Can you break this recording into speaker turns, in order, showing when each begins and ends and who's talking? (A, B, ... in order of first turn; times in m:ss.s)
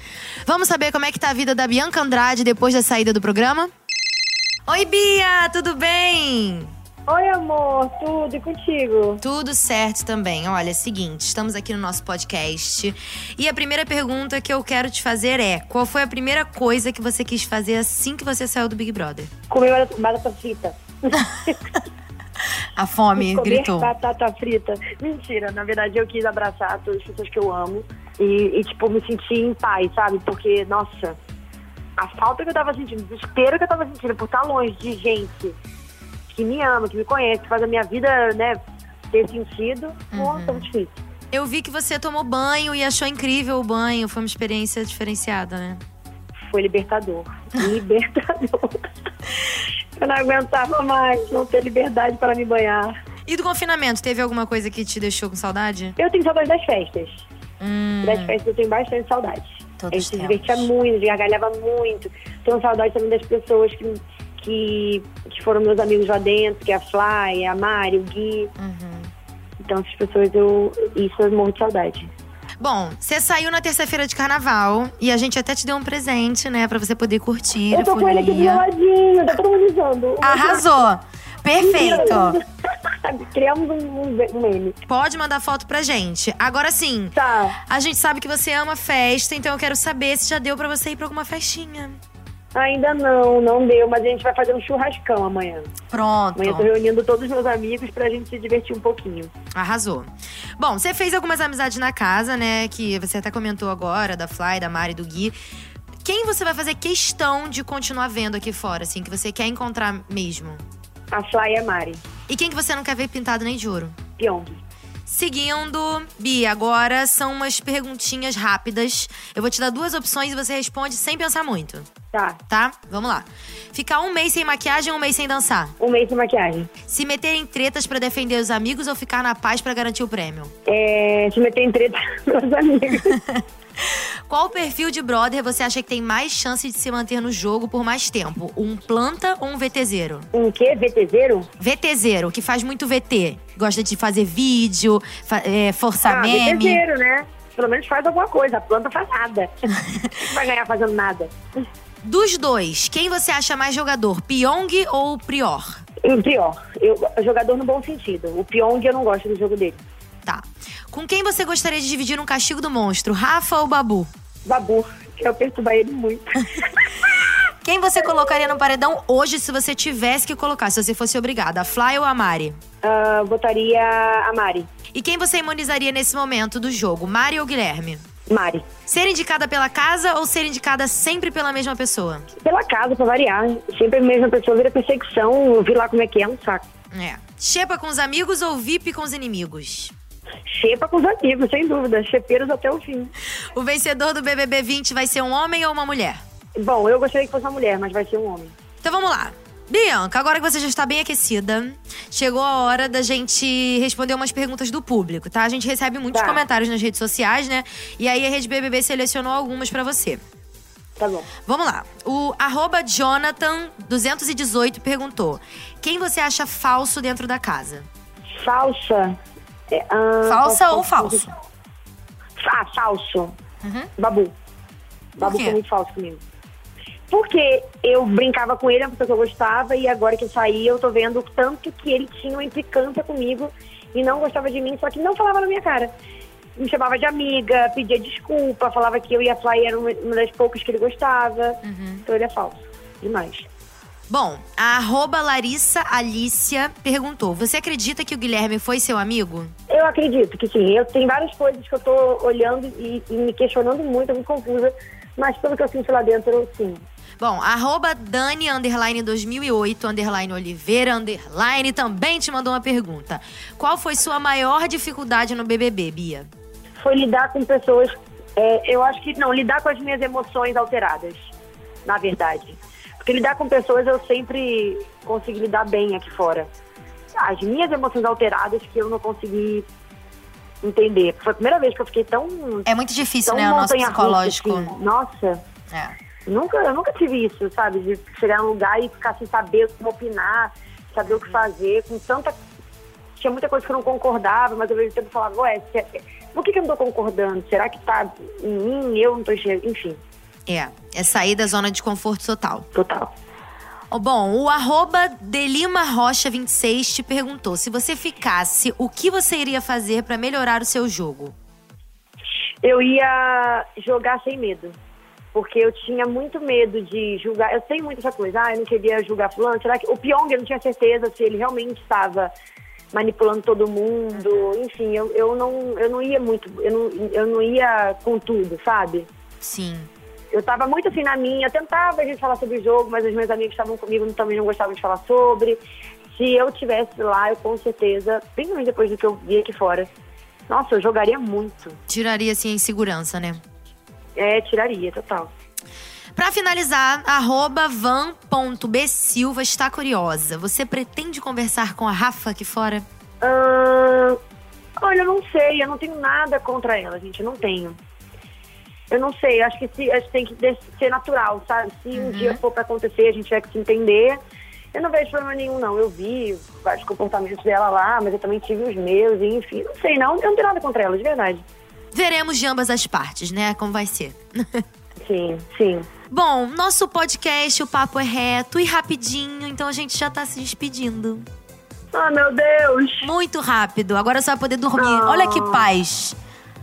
0:00.4-0:03.7 A
0:04.7-0:06.7 A
0:07.1-0:09.2 B
0:09.2-0:19.3 A
0:19.5-0:21.6 B
0:21.2-0:21.5 A
0:22.7-0:23.9 A
0:23.2-0:31.2 B
0:32.0-0:35.6 B
0:36.3-0:38.6 B
0:39.1-0:41.0 B
0:40.1-0:40.7 A
0:41.3-0:45.8 A
0:46.5-0:48.8 B
0:50.0-0:52.9 B
0:53.3-0:56.0 A
0:56.0-0:57.2 B
0:57.6-0:58.4 A
0:58.0-1:08.5 B
0:59.8-1:00.7 A
1:08.6-1:09.1 A
1:09.6-1:12.1 B
1:12.6-1:18.6 A
1:17.7-1:20.7 B
1:20.2-1:22.4 A
1:21.6-1:22.4 B
1:23.0-1:24.8 B
1:24.9-1:27.2 A
1:27.2-1:27.6 B
1:27.7-1:32.0 A
1:32.5-1:35.7 B
1:35.9-1:36.7 A
1:36.4-1:39.3 B
1:39.5-1:45.3 A
1:46.0-1:50.6 A
1:51.1-1:52.0 B
1:52.3-1:54.0 A
1:54.2-1:54.6 B
1:55.0-2:01.9 A
2:02.1-2:02.4 B
2:02.5-2:05.7 A
2:05.8-2:06.7 B
2:06.8-2:10.5 A
2:10.7-2:13.2 B
2:14.3-2:20.3 A
2:20.3-2:21.5 B
2:21.6-2:26.8 A
2:26.1-2:29.5 B
2:30.2-2:31.3 B
2:32.0-2:35.8 A
2:36.0-2:39.8 B
2:40.2-2:44.1 A
2:44.4-2:47.1 B
2:47.6-2:52.6 A
2:52.8-2:54.7 B
2:54.9-2:58.0 A
2:58.3-2:58.7 B
2:58.8-3:02.3 A
3:02.4-3:06.6 B
3:06.9-3:09.9 A
3:10.6-3:13.1 B
3:13.5-3:16.2 A
3:16.6-3:18.5 B
3:18.8-3:30.2 A
3:26.1-3:26.4 B
3:31.0-3:31.3 B
3:31.4-3:37.9 A
3:38.4-3:39.2 B
3:39.7-3:41.3 B
3:40.2-3:41.3 A
3:42.4-3:43.3 B
3:43.6-3:43.9 A
3:44.0-3:44.3 B
3:45.2-3:46.2 B
3:45.2-3:45.6 A
3:47.1-3:55.9 B
3:56.6-4:03.5 B
4:01.6-4:02.0 A
4:04.1-4:09.5 A
4:09.7-4:16.8 B
4:17.2-4:26.3 A
4:26.8-4:31.3 B
4:31.8-4:36.5 B
4:37.2-4:39.6 B
4:40.6-4:42.7 B
4:42.6-4:44.7 A
4:43.2-4:45.4 B
4:45.7-4:46.0 A
4:46.3-4:52.4 B
4:53.2-5:00.0 B
5:00.5-5:02.7 A
5:02.7-5:03.1 B
5:03.9-5:11.3 A
5:12.6-5:14.8 B
5:15.3-5:22.3 B
5:22.9-5:29.1 B
5:29.4-5:29.9 A
5:30.3-5:35.6 B
5:36.1-5:39.9 B
5:40.5-5:41.8 B
5:41.9-5:43.4 A
5:44.2-5:45.3 B
5:46.2-5:52.8 A
5:53.2-5:54.2 B
5:54.8-5:57.8 B
5:58.9-6:04.2 B
6:01.9-6:02.4 A
6:04.7-6:11.4 B
6:11.9-6:14.6 A
6:15.0-6:15.9 B
6:16.1-6:21.2 A
6:21.9-6:23.1 B
6:23.0-6:26.2 A
6:24.8-6:25.7 B